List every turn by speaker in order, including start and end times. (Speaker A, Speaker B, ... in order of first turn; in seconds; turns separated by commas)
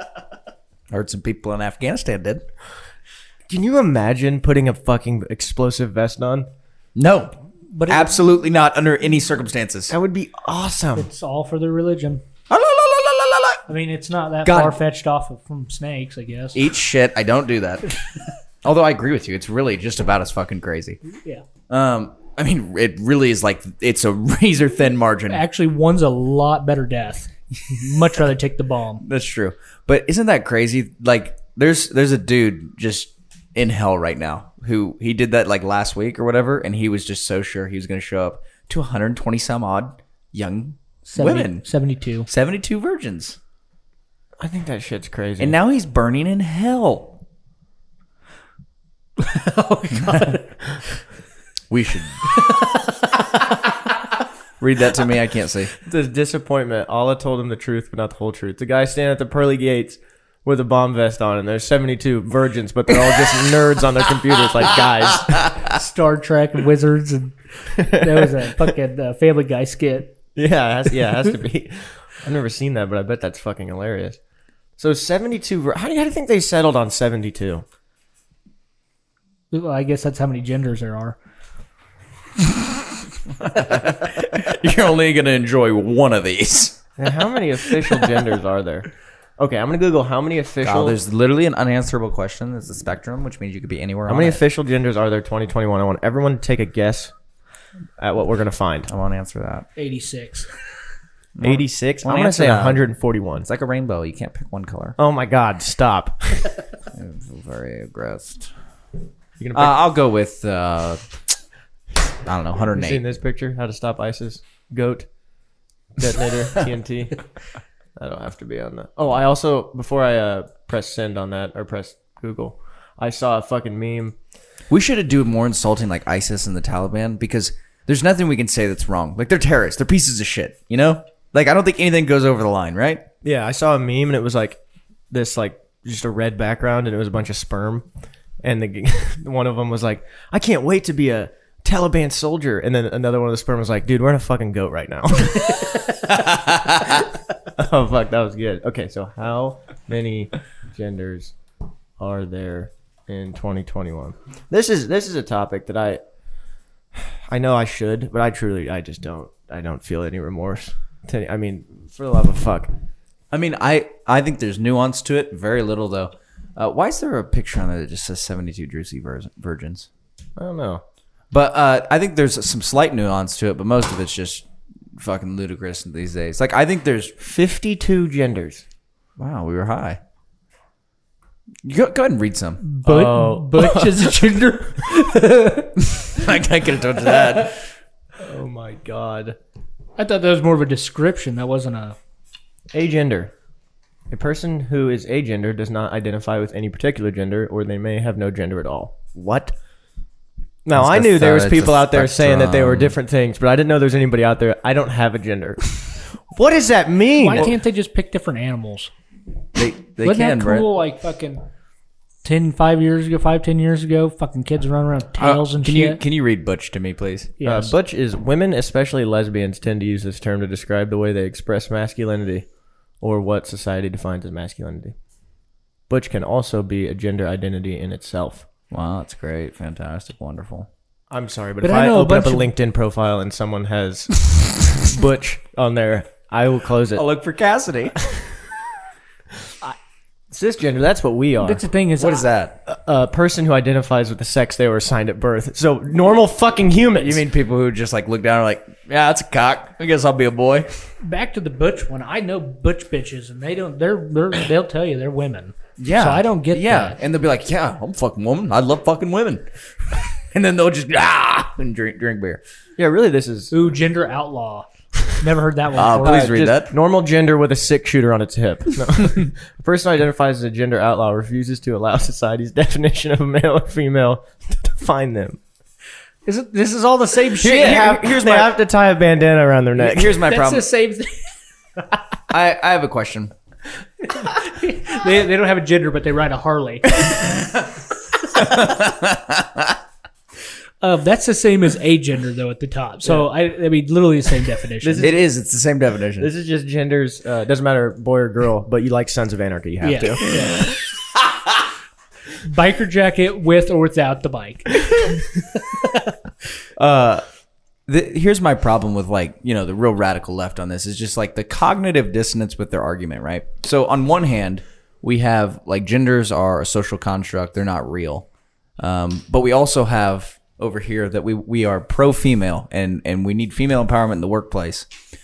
Speaker A: 0.9-2.4, Speaker B: 3.5-6.5, Speaker A: 7.0-7.3, Speaker C: 7.7-8.1, Speaker A: 7.9-9.9, Speaker B: 9.9-11.1, Speaker C: 10.9-12.2, Speaker A: 12.5-13.6, Speaker C: 13.7-16.6, Speaker A: 14.4-14.8, Speaker A: 16.5-18.1, Speaker A: 18.6-21.0, Speaker C: 21.1-21.4, Speaker A: 21.7-25.4, Speaker C: 25.3-29.0, Speaker A: 29.0-41.6, Speaker C: 41.0-42.3, Speaker A: 42.3-43.4, Speaker B: 44.4-45.6, Speaker A: 45.4-47.2, Speaker C: 49.2-50.8, Speaker A: 51.7-52.3, Speaker C: 52.3-53.5, Speaker A: 54.6-55.8, Speaker B: 55.8-65.5, Speaker C: 65.5-70.2, Speaker B: 67.8-68.3, Speaker B: 70.3-74.2, Speaker B: 74.8-77.6, Speaker C: 79.5-81.2, Speaker A: 83.4-86.9, Speaker B: 87.0-91.0, Speaker A: 90.6-94.4, Speaker B: 94.1-97.1, Speaker B: 98.0-98.9, Speaker A: 98.9-99.7, Speaker C: 99.8-100.5, Speaker A: 101.3-102.8, Speaker B: 101.4-103.5, Speaker A: 103.4-105.0, Speaker B: 105.0-106.5, Speaker A: 106.9-108.5, Speaker B: 109.4-109.8, Speaker A: 109.5-111.0, Speaker A: 112.2-113.0, Speaker B: 112.7-115.1, Speaker B: 116.0-117.2, Speaker B: 118.0-124.2, Speaker A: 124.7-133.0, Speaker B: 133.2-137.9, Speaker B: 138.4-145.9, Speaker A: 146.1-146.9, Speaker B: 146.8-151.3, Speaker B: 152.0-156.0, Speaker B: 156.9-162.7, Speaker A: 163.3-169.9, Speaker B: 170.4-170.8, Speaker A: 171.3-177.1, Speaker B: 177.2-178.6, Speaker A: 179.2-180.0, Speaker A: 181.6-182.6, Speaker C: 182.6-186.0, Speaker B: 182.8-184.2, Speaker A: 185.8-187.6, Speaker B: 188.2-189.4, Speaker C: 190.0-192.0, Speaker B: 192.7-193.3, Speaker B: 194.1-199.5, Speaker B: 200.6-207.5, Speaker A: 200.8-202.9, Speaker C: 207.2-208.9, Speaker A: 209.6-210.7, Speaker C: 210.0-211.4, Speaker C: 212.2-216.0, Speaker A: 215.2-217.3, Speaker C: 217.4-217.7, Speaker B: 217.4-222.5, Speaker B: 223.0-224.9, Speaker B: 225.9-228.5, Speaker A: 228.7-230.7, Speaker B: 231.1-237.0, Speaker C: 231.6-232.5, Speaker A: 236.9-238.0, Speaker B: 240.3-241.6, Speaker C: 241.4-242.3, Speaker A: 242.0-242.6, Speaker B: 242.7-247.2, Speaker A: 247.0-250.7, Speaker C: 251.0-257.0, Speaker A: 255.8-262.4, Speaker B: 262.8-263.5, Speaker C: 263.5-266.4, Speaker A: 265.7-266.7, Speaker B: 266.0-275.4, Speaker C: 276.2-278.5, Speaker B: 277.4-280.3, Speaker A: 277.4-278.0, Speaker A: 279.8-280.6, Speaker C: 280.2-281.3, Speaker A: 282.3-283.3, Speaker C: 284.0-287.6, Speaker A: 288.3-289.7, Speaker C: 290.8-295.1, Speaker B: 294.8-295.2, Speaker A: 295.0-296.3, Speaker B: 296.2-300.3, Speaker C: 299.8-300.7, Speaker C: 302.4-306.1, Speaker A: 306.8-307.2, Speaker A: 307.9-318.2, Speaker A: 318.8-324.9